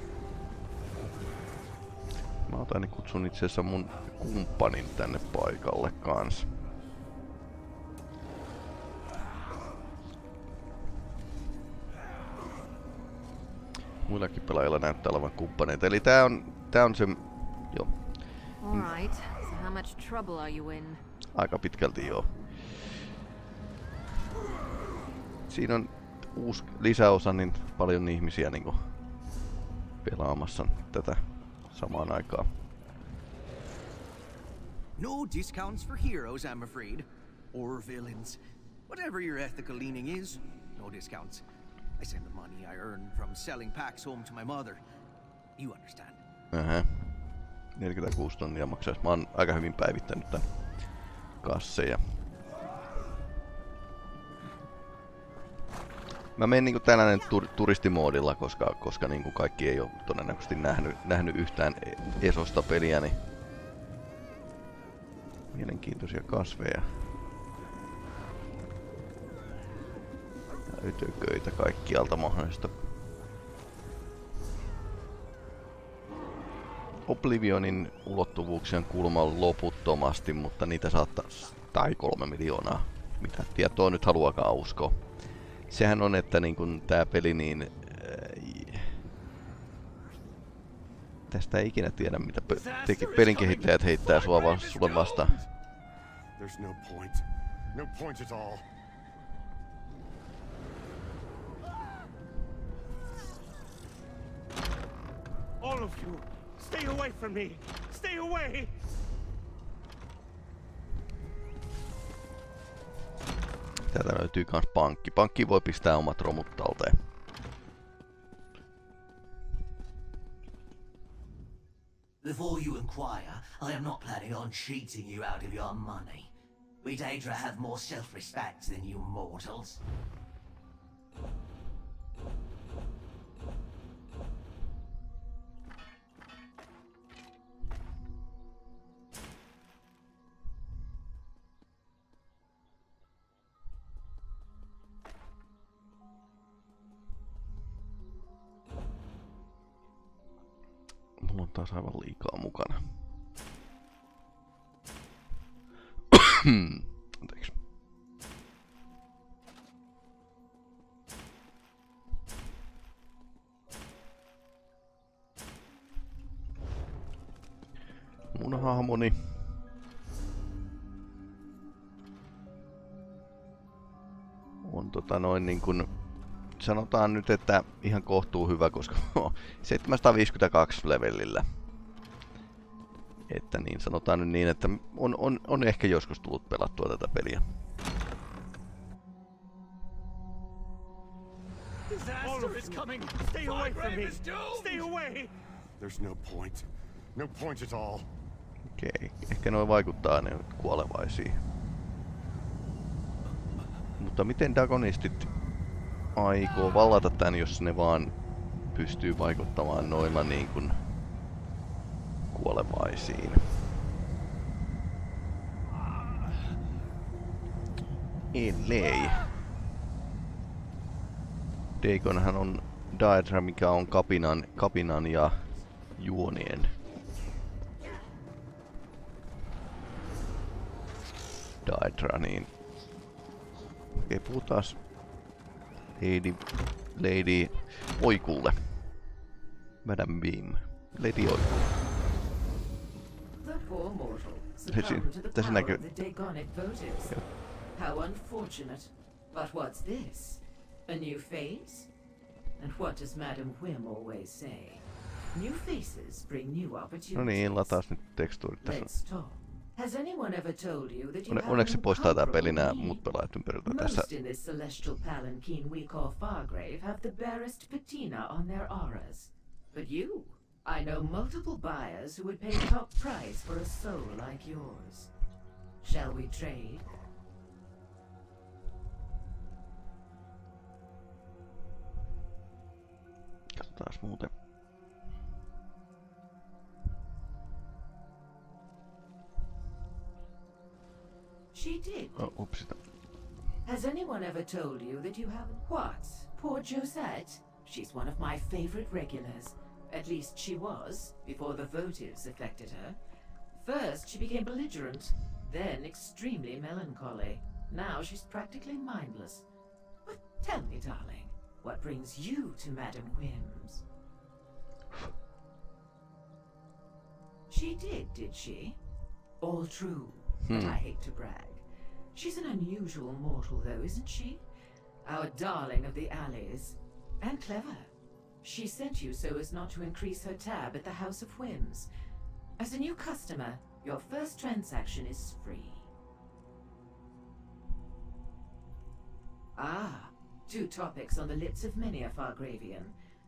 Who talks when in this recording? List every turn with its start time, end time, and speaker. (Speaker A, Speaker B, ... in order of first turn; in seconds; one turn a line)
Speaker A: 2.5-6.5
Speaker A: 14.1-17.9
Speaker B: 18.6-21.0
Speaker A: 21.3-22.3
Speaker A: 25.5-28.9
Speaker A: 30.0-32.5
Speaker C: 35.0-41.4
Speaker C: 42.0-44.8
Speaker C: 45.6-46.2
Speaker A: 46.5-47.1
Speaker A: 47.8-50.5
Speaker A: 51.4-52.2
Speaker A: 56.4-63.2
Speaker A: 65.5-66.9
Speaker A: 70.7-72.8
Speaker A: 77.0-85.0
Speaker A: 85.7-89.0
Speaker A: 91.3-95.4
Speaker C: 92.9-93.5
Speaker C: 94.3-95.0
Speaker D: 96.4-98.6
Speaker E: 105.6-108.7
Speaker A: 113.9-117.0
Speaker F: 122.2-129.8
Speaker A: 151.2-152.8
Speaker A: 156.1-157.5
Speaker A: 168.3-169.4
Speaker A: 174.6-175.9
Speaker A: 176.6-181.4
Speaker A: 183.3-187.4
Speaker C: 191.9-194.8
Speaker E: 192.2-195.3
Speaker D: 195.8-198.1
Speaker A: 198.7-201.4
Speaker A: 204.0-205.3
Speaker A: 206.1-208.1
Speaker A: 208.7-210.8
Speaker A: 212.3-213.5
Speaker A: 218.3-219.3
Speaker A: 221.8-225.4
Speaker A: 226.0-226.7
Speaker A: 231.6-232.5
Speaker A: 233.9-234.8
Speaker A: 236.0-236.4
Speaker A: 236.9-238.7
Speaker A: 239.8-241.6
Speaker G: 243.4-247.2
Speaker A: 244.7-245.8
Speaker G: 247.7-251.9
Speaker G: 252.6-257.8
Speaker A: 257.1-258.9
Speaker G: 258.6-263.0
Speaker A: 261.3-264.1
Speaker G: 263.6-275.1
Speaker G: 275.8-276.9
Speaker A: 283.5-284.3
Speaker G: 291.5-292.2
Speaker A: 292.2-292.8
Speaker G: 293.6-303.0
Speaker G: 303.5-309.4
Speaker G: 310.0-313.8
Speaker G: 317.5-318.8
Speaker G: 319.4-324.4
Speaker A: 320.5-320.8
Speaker G: 325.0-327.9
Speaker G: 328.4-331.9
Speaker G: 332.6-335.9
Speaker G: 339.6-342.9